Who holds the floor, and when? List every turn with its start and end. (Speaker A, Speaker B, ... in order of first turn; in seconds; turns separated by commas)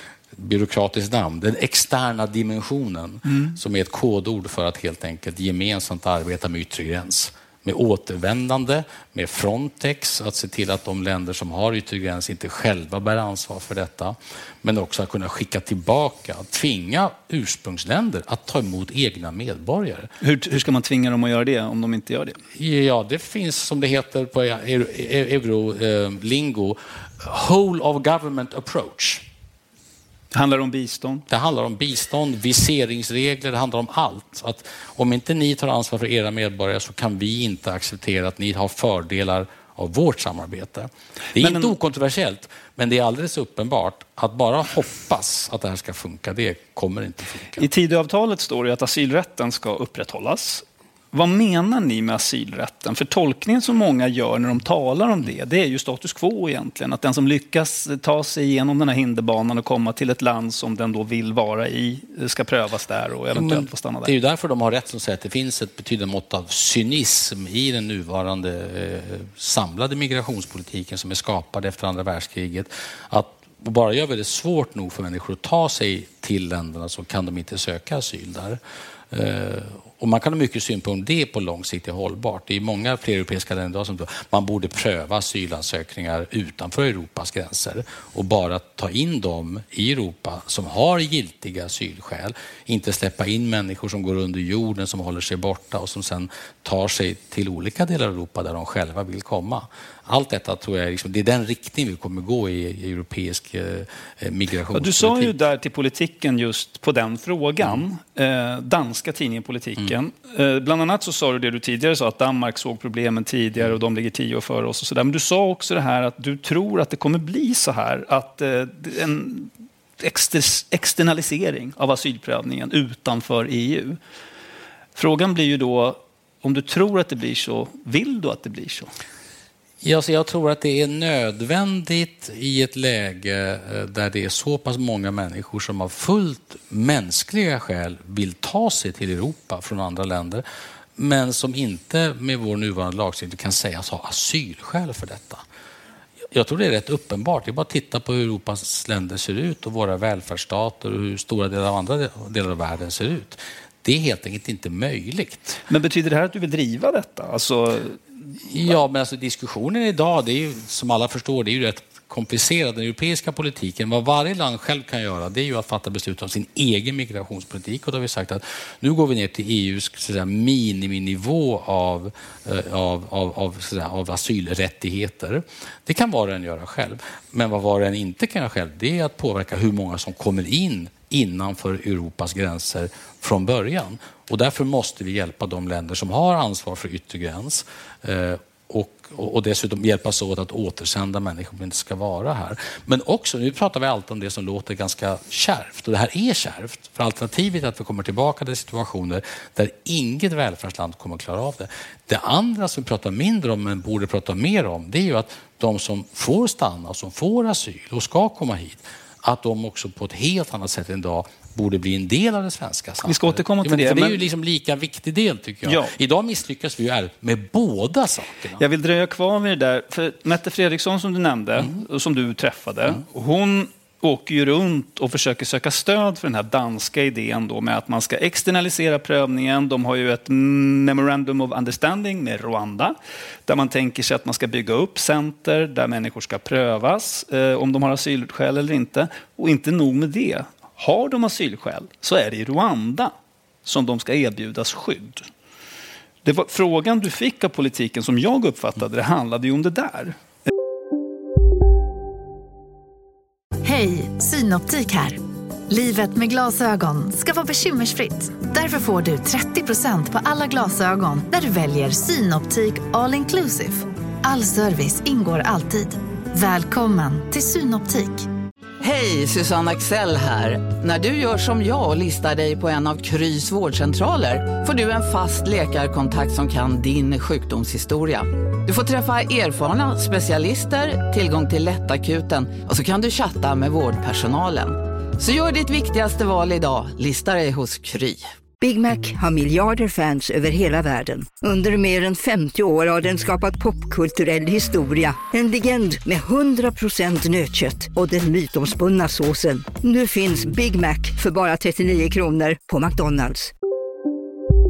Speaker A: 0.3-20.1, Speaker B: 3.3-3.5, Speaker B: 20.2-22.4, Speaker A: 22.5-29.2, Speaker B: 30.3-31.2, Speaker A: 31.3-47.7, Speaker B: 41.4-41.7, Speaker B: 47.6-64.1, Speaker A: 63.3-78.6, Speaker A: 79.1-105.3, Speaker B: 104.7-124.0, Speaker B: 125.0-128.9, Speaker A: 129.8-140.4, Speaker A: 141.0-145.4, Speaker A: 146.3-155.6, Speaker B: 155.7-158.0, Speaker A: 158.5-218.6, Speaker B: 213.0-214.2, Speaker B: 215.6-215.9, Speaker B: 218.6-243.1, Speaker B: 243.6-245.3, Speaker B: 246.2-250.2, Speaker C: 253.6-268.3, Speaker D: 268.8-288.2, Speaker E: 288.6-303.5